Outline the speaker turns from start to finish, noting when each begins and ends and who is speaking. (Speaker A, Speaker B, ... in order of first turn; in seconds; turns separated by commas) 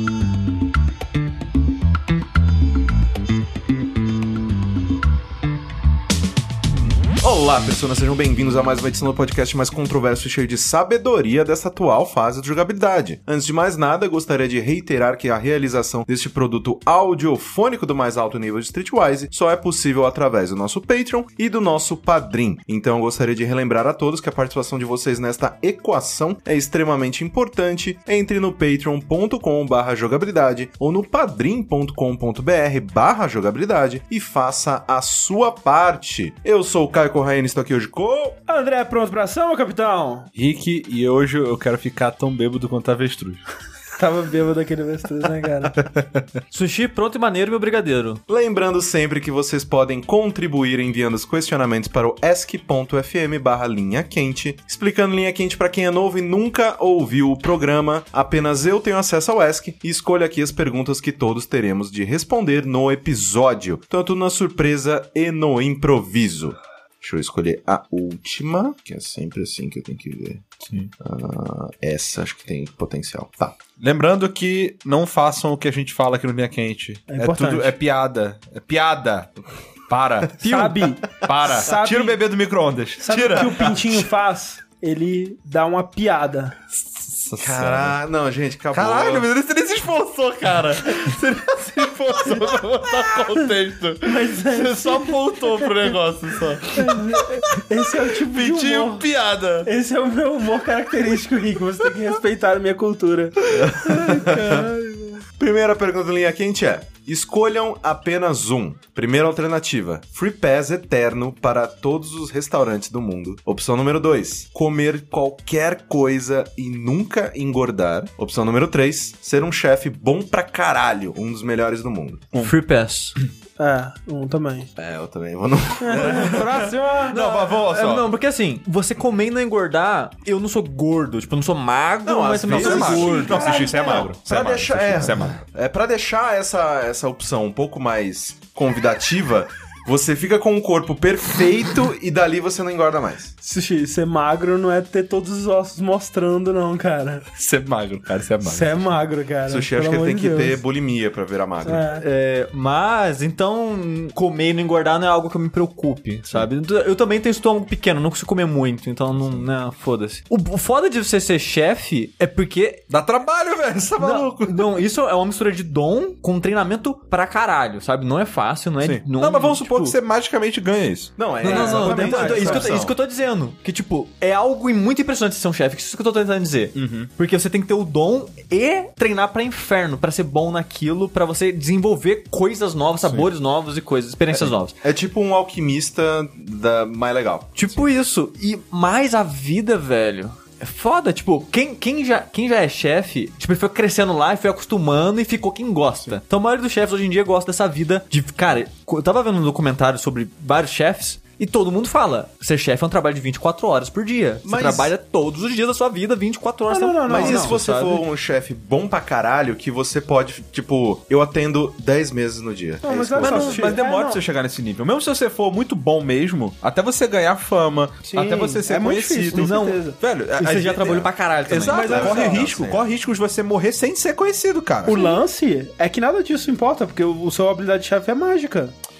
Speaker A: 7.2-38.4, Speaker B: 38.5-40.3, Speaker C: 40.4-43.4, Speaker B: 44.0-45.8, Speaker C: 45.8-46.3, Speaker D: 46.5-48.2, Speaker A: 48.3-73.5, Speaker C: 73.8-79.3, Speaker B: 77.1-77.7, Speaker C: 79.9-80.3, Speaker D: 80.4-80.8, Speaker B: 80.4-82.2, Speaker C: 81.2-84.0, Speaker B: 83.0-86.5, Speaker C: 86.8-88.0, Speaker A: 87.4-89.3, Speaker C: 88.7-97.4, Speaker B: 94.0-95.7, Speaker B: 96.7-99.0, Speaker C: 98.2-99.7, Speaker B: 99.6-104.5, Speaker A: 103.6-104.6, Speaker C: 104.0-105.1, Speaker A: 105.4-122.2, Speaker D: 122.3-123.2, Speaker B: 123.6-124.7, Speaker A: 124.8-126.4, Speaker B: 125.8-127.3, Speaker C: 126.0-128.1, Speaker D: 127.1-133.5, Speaker A: 132.0-143.3, Speaker C: 132.5-135.4, Speaker B: 132.5-134.1, Speaker B: 143.4-147.2, Speaker C: 147.3-148.7, Speaker B: 148.4-150.6, Speaker A: 149.5-151.8, Speaker B: 151.6-152.1, Speaker D: 151.9-162.8, Speaker C: 162.9-164.7, Speaker D: 164.0-169.9, Speaker C: 168.8-171.6, Speaker A: 171.2-172.9, Speaker D: 171.4-184.7, Speaker B: 171.4-172.8, Speaker C: 176.7-177.1, Speaker C: 183.0-183.3, Speaker A: 184.3-187.8, Speaker D: 187.6-208.0, Speaker A: 204.4-204.9, Speaker B: 206.7-207.6, Speaker A: 207.1-213.7, Speaker B: 212.8-214.2, Speaker C: 213.2-225.2, Speaker B: 218.1-219.9, Speaker D: 219.3-219.8, Speaker D: 220.3-222.1, Speaker B: 221.6-222.4, Speaker A: 221.8-222.9, Speaker B: 224.8-228.7